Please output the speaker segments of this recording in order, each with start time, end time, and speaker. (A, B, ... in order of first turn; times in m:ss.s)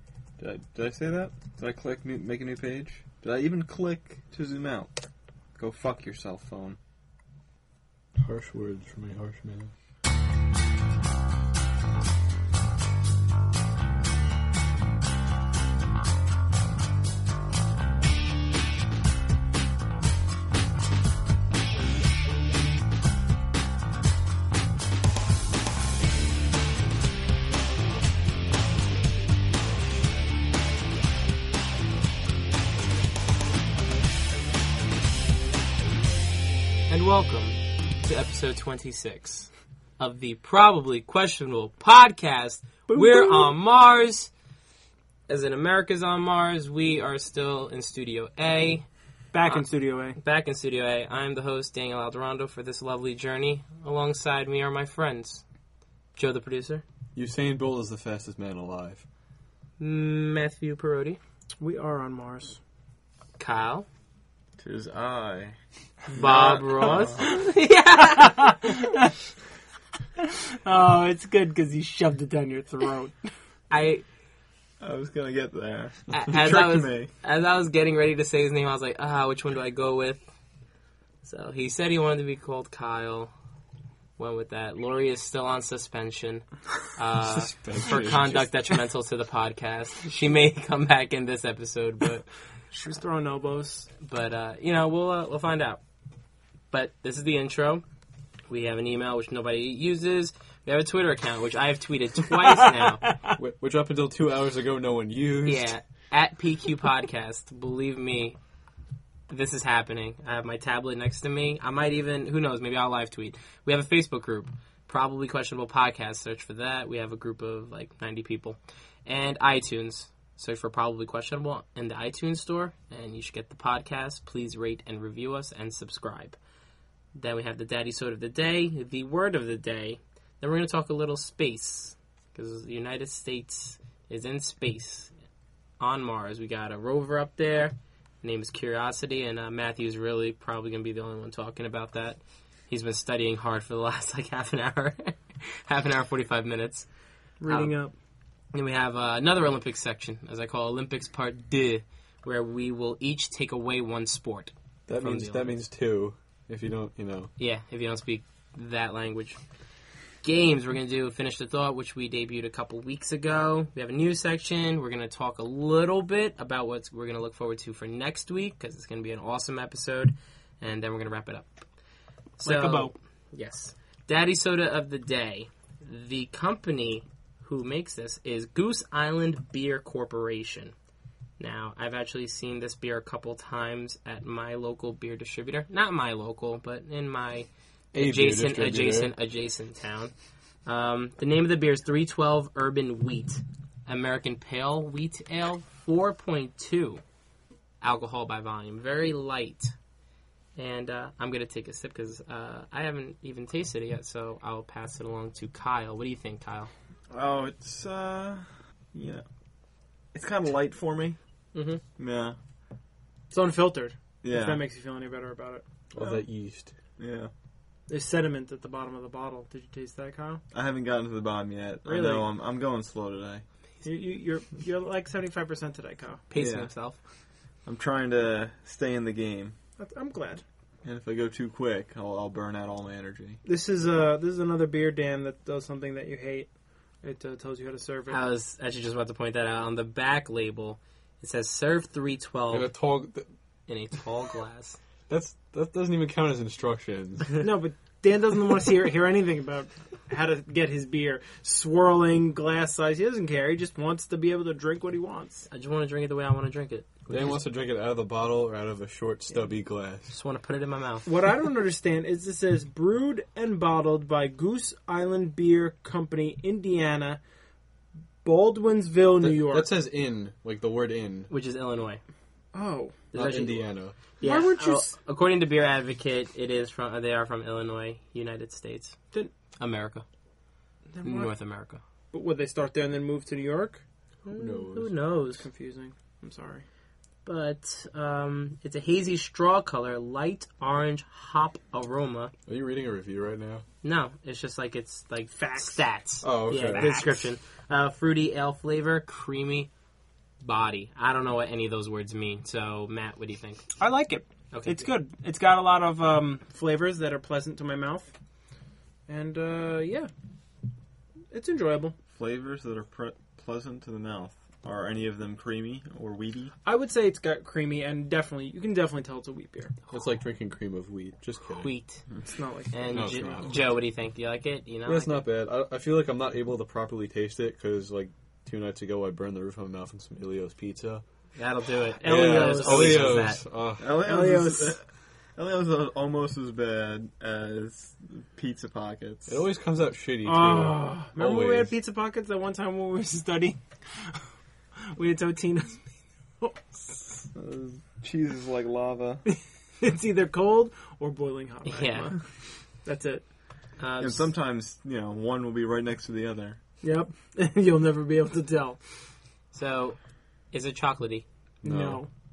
0:00.4-0:04.9 A
0:05.6-0:06.8 A
0:08.2-0:09.7 B
0:36.9-0:44.3 C
0:42.9-0:43.5 D
0:45.3-0:48.9 C
0:49.3-0:50.2 D
0:50.2-0:55.4 C
0:56.2-0:56.8 C
0:57.2-0:59.0 B
0:59.8-1:01.2 C
1:01.6-1:02.6 D
1:03.4-1:03.9 C
1:04.6-1:05.6 A
1:06.1-1:07.3 A
1:06.2-1:08.7 C
1:08.0-1:09.1 D
1:10.2-1:13.3 D
1:13.7-1:14.0 C
1:14.8-1:17.1 A
1:16.1-1:20.2 C
1:21.2-1:23.3 C
1:24.2-1:32.3 C
1:27.2-1:28.5 B
1:32.7-1:33.9 D
1:34.0-1:35.8 C
1:36.7-1:37.8 C
1:38.5-1:43.2 C
1:43.4-1:45.7 B
1:45.4-1:48.4 C
1:49.3-2:06.4 C
2:07.2-2:15.1 C
2:15.8-2:26.9 C
2:27.4-2:27.9 D
2:27.5-2:27.7 C
2:28.5-2:35.6 C
2:34.9-2:37.3 B
2:37.4-2:39.4 C
2:40.2-2:51.6 C
2:52.4-3:00.7 C
2:52.4-2:52.9 D
3:01.4-3:10.1 C
3:07.9-3:09.1 B
3:10.7-3:17.0 C
3:17.8-3:19.7 C
3:20.6-3:26.7 C
3:27.1-3:29.2 A
3:30.1-3:31.2 A
3:31.5-3:31.8 C
3:32.0-3:32.4 A
3:33.3-3:35.6 D
3:34.2-3:34.6 A
3:35.9-3:36.7 B
3:37.0-3:37.3 A
3:37.9-3:40.4 D
3:40.5-3:43.4 A
3:41.9-3:42.3 D
3:43.8-3:46.2 D
3:46.3-3:47.0 C
3:46.4-3:46.7 A
3:47.7-3:49.6 A
3:49.8-3:50.4 D
3:50.8-3:53.4 A
3:53.4-3:56.5 D
3:57.0-3:58.2 D
3:58.1-4:02.7 C
4:02.5-4:03.3 B
4:03.7-4:04.8 C
4:05.1-4:07.3 B
4:07.4-4:15.5 D
4:15.5-4:17.4 C
4:17.1-4:20.1 B
4:20.1-4:21.1 C
4:21.1-4:27.2 D
4:28.2-4:29.7 D
4:29.2-4:31.3 B
4:31.3-4:32.0 C
4:32.5-4:33.0 D
4:33.1-4:39.0 C
4:33.2-4:34.0 B
4:34.2-4:35.0 D
4:39.6-4:40.0 C
4:40.9-4:41.3 D
4:41.0-4:41.8 C
4:42.1-4:43.8 D
4:44.3-4:45.5 C
4:44.3-4:44.9 B
4:45.3-4:46.6 D
4:47.2-4:52.3 C
4:52.5-4:53.6 B
4:53.8-4:59.7 C
4:55.4-4:55.8 D
4:56.2-4:57.1 B
4:56.5-4:57.2 D
5:00.4-5:03.7 C
5:03.8-5:08.1 D
5:04.5-5:04.8 C
5:09.1-5:10.1 D
5:11.3-5:12.0 D
5:12.1-5:16.5 A
5:16.6-5:19.7 D
5:19.9-5:21.7 B
5:21.6-5:22.0 C
5:22.2-5:23.5 D
5:22.7-5:25.2 C
5:22.9-5:23.6 B
5:24.9-5:31.0 B
5:31.4-5:33.4 C
5:32.0-5:33.3 D
5:32.0-5:34.0 B
5:33.8-5:34.8 A
5:34.0-5:34.8 D
5:35.4-5:39.4 A
5:39.3-5:41.7 B
5:40.2-5:44.2 D
5:44.9-5:45.9 D
5:46.4-5:47.2 D
5:47.3-5:49.2 A
5:49.3-5:52.2 D
5:51.7-5:52.1 C
5:52.8-5:53.2 D
5:53.8-5:54.3 C
5:54.0-5:56.6 A
5:56.8-5:58.8 D
5:59.5-6:00.0 C
6:00.5-6:01.2 C
6:01.6-6:02.1 D
6:01.6-6:02.0 B